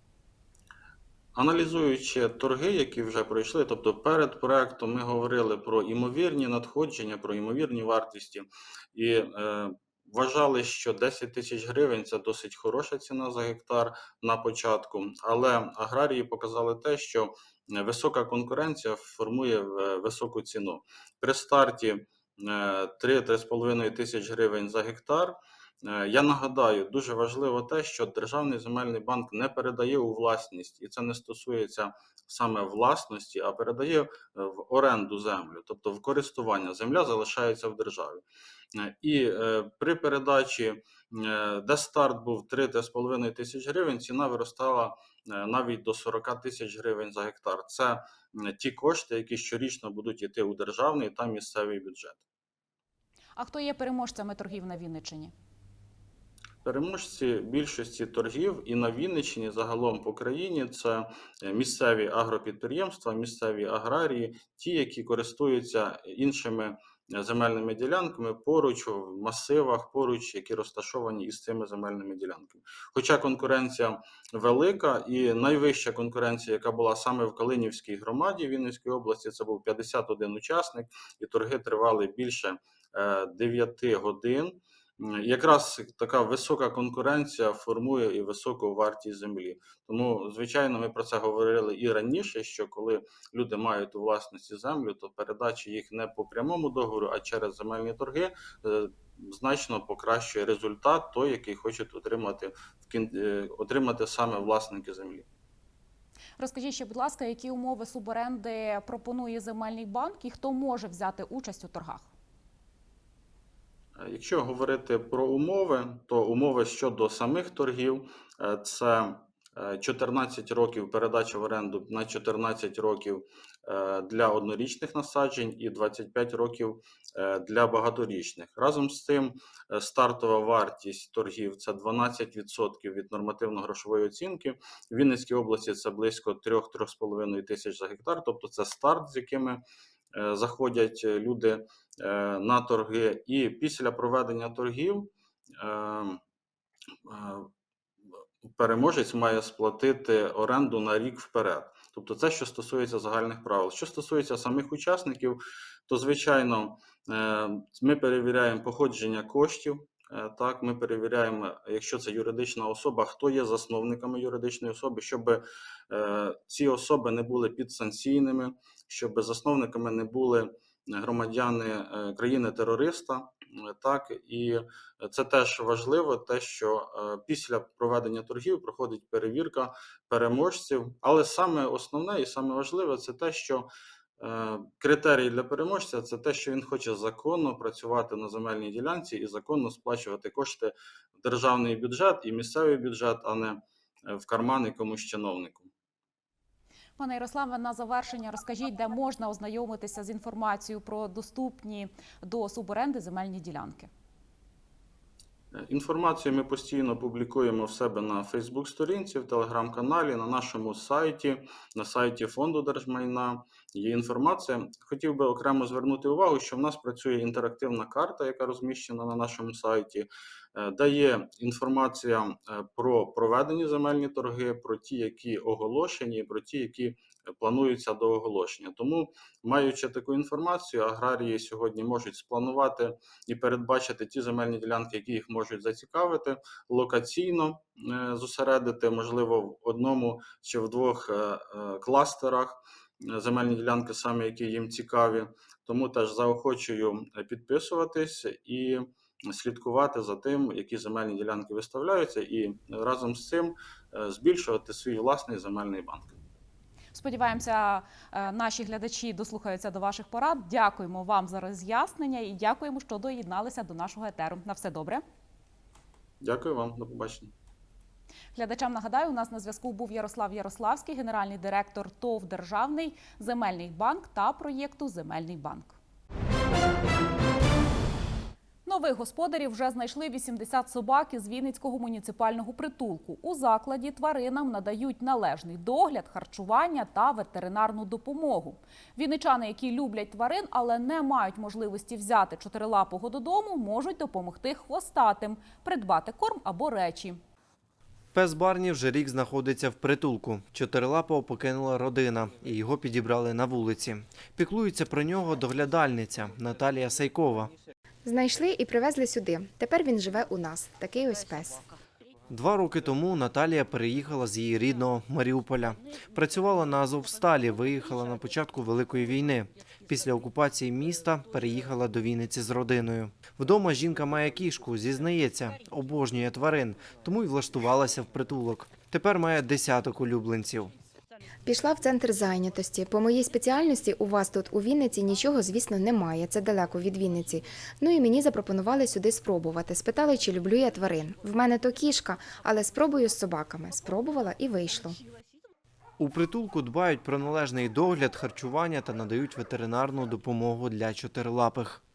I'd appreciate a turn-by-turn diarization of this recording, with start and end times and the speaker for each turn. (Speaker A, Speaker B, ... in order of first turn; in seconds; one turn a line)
Speaker A: 1.4-38.2
Speaker A: 38.8-52.2
Speaker B: 53.4-55.3
Speaker A: 56.6-105.3
Speaker B: 106.4-112.1
Speaker A: 114.0-139.6
Speaker A: 140.2-146.2
Speaker A: 147.1-147.5
Speaker A: 148.6-183.7
Speaker A: 184.2-193.6
Speaker A: 194.1-195.7
Speaker B: 197.0-203.9
Speaker A: 205.6-256.1
Speaker B: 256.9-265.0
Speaker A: 266.2-267.3
Speaker B: 268.4-275.8
Speaker B: 278.7-297.2
Speaker C: 298.1-307.5
Speaker D: 308.1-311.6
Speaker C: 312.3-330.7
Speaker D: 331.4-345.0
Speaker C: 346.0-351.8